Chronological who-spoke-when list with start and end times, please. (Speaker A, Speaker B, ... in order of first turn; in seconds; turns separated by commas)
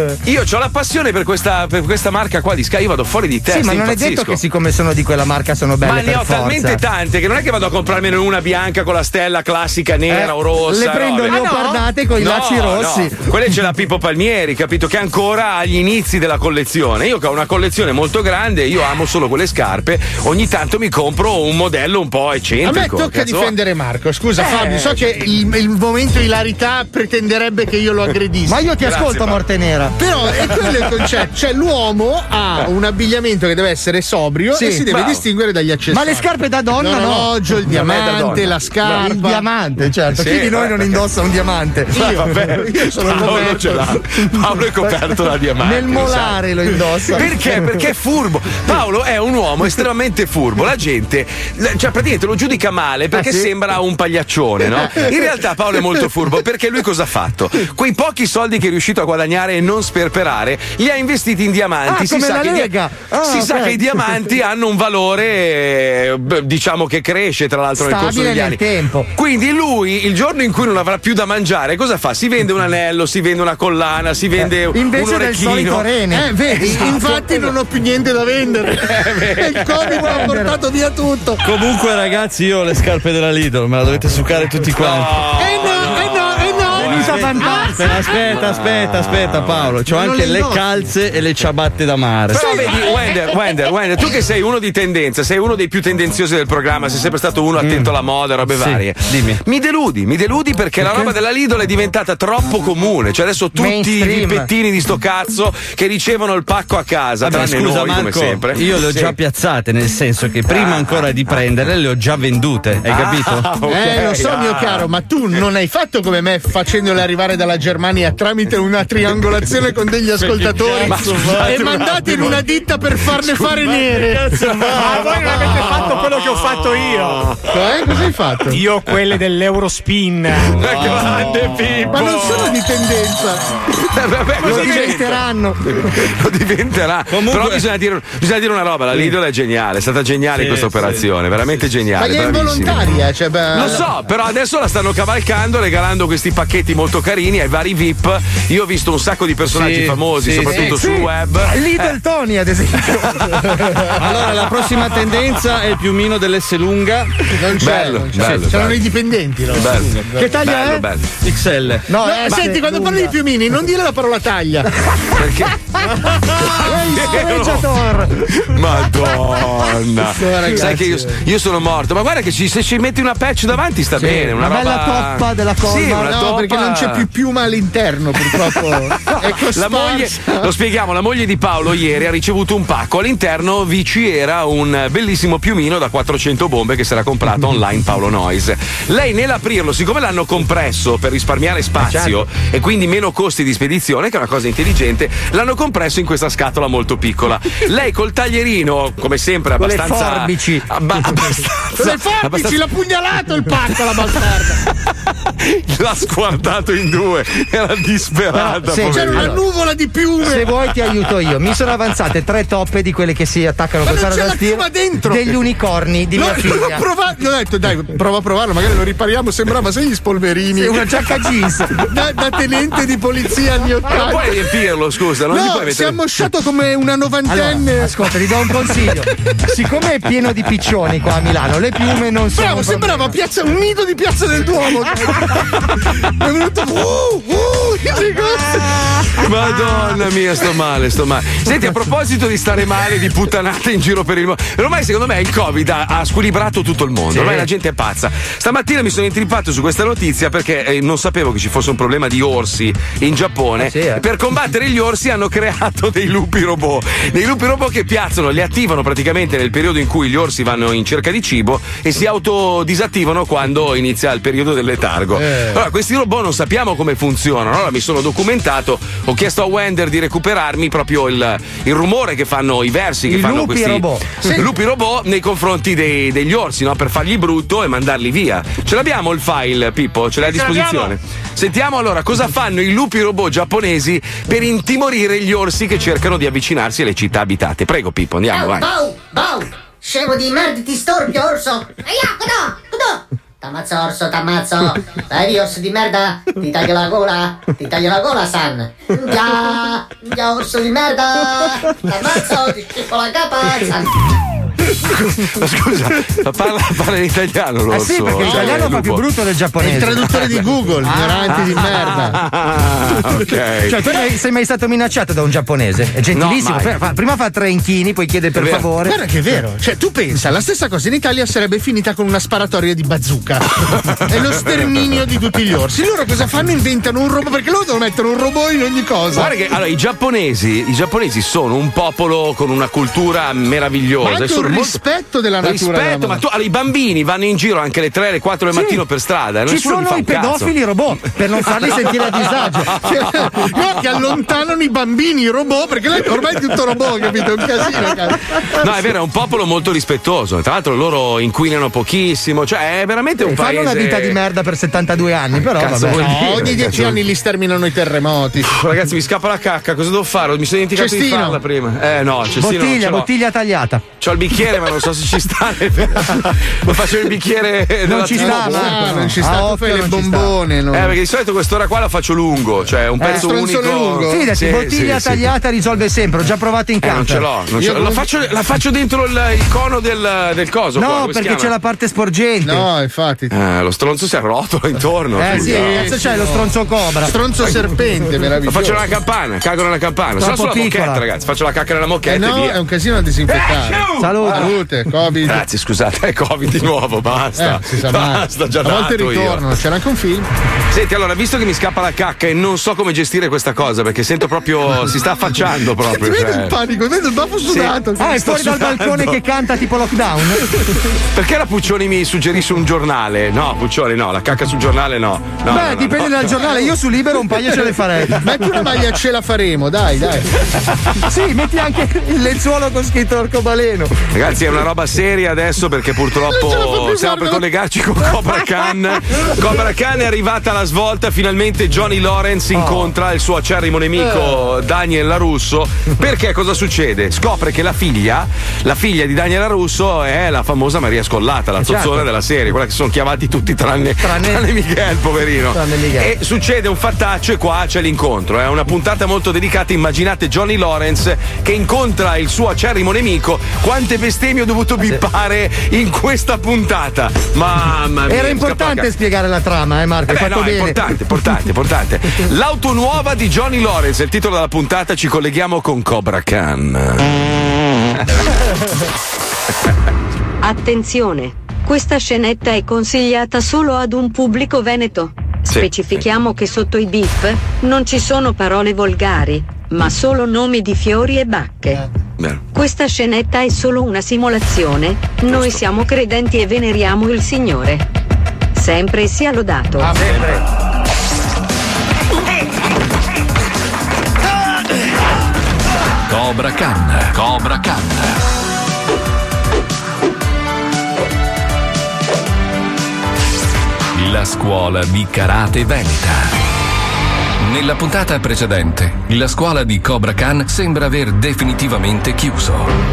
Speaker A: 0.2-4.4, Speaker B: 3.5-6.8, Speaker A: 5.8-23.5, Speaker B: 10.1-13.1, Speaker C: 22.6-28.6, Speaker A: 24.4-25.0, Speaker B: 28.5-29.9, Speaker A: 28.8-29.4, Speaker C: 30.0-39.4, Speaker B: 34.5-34.8, Speaker A: 34.9-35.2, Speaker B: 35.9-38.4, Speaker A: 37.7-39.0, Speaker B: 38.9-41.9, Speaker A: 40.1-41.0, Speaker C: 41.9-44.0, Speaker A: 42.0-46.4, Speaker B: 44.8-47.7, Speaker A: 47.1-68.6, Speaker B: 53.1-53.5, Speaker B: 61.9-63.9, Speaker B: 67.8-69.1, Speaker A: 69.1-75.9, Speaker B: 74.4-77.5, Speaker C: 76.1-81.4, Speaker A: 76.5-77.0, Speaker A: 78.8-80.2, Speaker B: 79.8-80.6, Speaker D: 81.4-85.2, Speaker A: 84.7-87.3, Speaker C: 85.4-87.8, Speaker B: 86.7-88.0, Speaker D: 87.1-92.6, Speaker A: 88.0-89.7, Speaker B: 90.0-90.6, Speaker A: 92.3-109.1, Speaker C: 92.5-93.1, Speaker D: 97.6-97.9, Speaker D: 99.0-99.4, Speaker D: 100.8-101.1, Speaker B: 103.5-104.5, Speaker D: 107.2-113.6, Speaker A: 110.5-111.5, Speaker A: 112.8-114.9, Speaker C: 113.7-125.3, Speaker A: 120.2-127.4, Speaker E: 124.2-127.3, Speaker C: 127.5-128.6, Speaker E: 128.5-130.8, Speaker A: 130.5-132.6, Speaker D: 131.2-131.9, Speaker C: 131.9-133.4, Speaker A: 133.9-142.9, Speaker B: 134.4-135.9, Speaker C: 134.4-135.0, Speaker D: 137.1-137.6, Speaker D: 140.3-141.0, Speaker C: 142.0-143.8, Speaker A: 143.5-151.9, Speaker D: 149.5-150.6, Speaker B: 150.5-155.1, Speaker D: 154.0-157.1, Speaker C: 157.3-160.3, Speaker A: 157.6-158.8, Speaker A: 159.5-161.2, Speaker B: 160.2-160.8, Speaker D: 161.2-161.9, Speaker B: 161.9-163.2, Speaker C: 162.0-164.7, Speaker A: 165.2-167.7, Speaker B: 166.5-168.2, Speaker A: 168.3-177.1, Speaker C: 170.0-171.2, Speaker B: 174.0-176.2, Speaker C: 176.0-180.5, Speaker A: 178.3-202.6, Speaker B: 191.8-192.2, Speaker B: 199.6-200.7, Speaker C: 201.7-204.6, Speaker A: 205.4-209.4, Speaker B: 208.3-209.4, Speaker C: 208.9-210.5, Speaker B: 210.2-216.8, Speaker C: 213.8-215.3, Speaker C: 216.1-220.8, Speaker B: 220.5-221.8, Speaker C: 221.8-224.4, Speaker A: 223.9-226.0, Speaker C: 225.3-227.9, Speaker B: 227.2-232.9, Speaker C: 232.3-235.4, Speaker C: 236.1-238.6, Speaker A: 239.2-288.7, Speaker B: 247.1-247.5, Speaker B: 253.6-254.0, Speaker C: 265.1-265.6, Speaker B: 273.1-274.0, Speaker C: 280.3-280.9, Speaker F: 288.3-303.9, Speaker A: 304.8-309.0, Speaker B: 307.7-311.8, Speaker C: 308.2-308.7, Speaker C: 309.6-312.2, Speaker A: 310.1-310.4, Speaker A: 311.3-313.9, Speaker B: 313.6-319.0, Speaker A: 316.1-316.8, Speaker A: 318.4-318.7, Speaker C: 318.8-323.4, Speaker C: 324.0-329.3, Speaker A: 329.1-334.8, Speaker C: 334.0-336.2, Speaker A: 335.4-340.5, Speaker B: 338.5-338.8, Speaker B: 339.4-342.7, Speaker A: 341.5-343.6, Speaker C: 342.8-348.3, Speaker A: 348.6-354.2, Speaker B: 353.2-356.6, Speaker A: 355.5-357.0, Speaker C: 356.0-358.5, Speaker A: 358.5-363.1, Speaker C: 360.7-361.4, Speaker B: 362.4-363.8, Speaker A: 364.0-369.0, Speaker B: 367.8-370.3, Speaker C: 368.1-371.0, Speaker A: 370.7-375.3, Speaker B: 373.0-373.3, Speaker C: 373.0-374.2, Speaker B: 374.1-377.3, Speaker A: 376.8-381.5, Speaker C: 377.6-378.0, Speaker B: 380.8-382.7, Speaker C: 382.4-383.3, Speaker A: 383.3-385.9, Speaker B: 385.1-387.1, Speaker C: 385.2-386.5, Speaker C: 387.0-388.8, Speaker A: 388.4-392.6, Speaker B: 390.2-391.0, Speaker C: 392.1-395.4, Speaker A: 393.3-393.8, Speaker B: 394.0-394.5, Speaker A: 395.2-399.5, Speaker C: 397.4-400.3, Speaker A: 400.7-406.6, Speaker C: 405.9-408.2, Speaker A: 407.4-409.2, Speaker B: 408.0-410.4, Speaker A: 411.1-416.4, Speaker B: 415.5-418.2, Speaker C: 418.2-420.3, Speaker B: 421.0-423.9, Speaker A: 424.1-458.9, Speaker C: 426.2-427.4, Speaker B: 432.5-432.9, Speaker C: 433.9-434.4, Speaker B: 441.6-442.1, Speaker B: 444.0-444.4, Speaker B: 445.5-446.1, Speaker B: 458.1-460.8, Speaker A: 460.1-467.1, Speaker G: 470.4-481.8, Speaker A: 475.5-476.0, Speaker G: 482.5-487.8, Speaker A: 485.3-485.6, Speaker G: 488.5-490.0, Speaker H: 496.1-498.2, Speaker H: 503.9-506.4, Speaker H: 507.4-512.7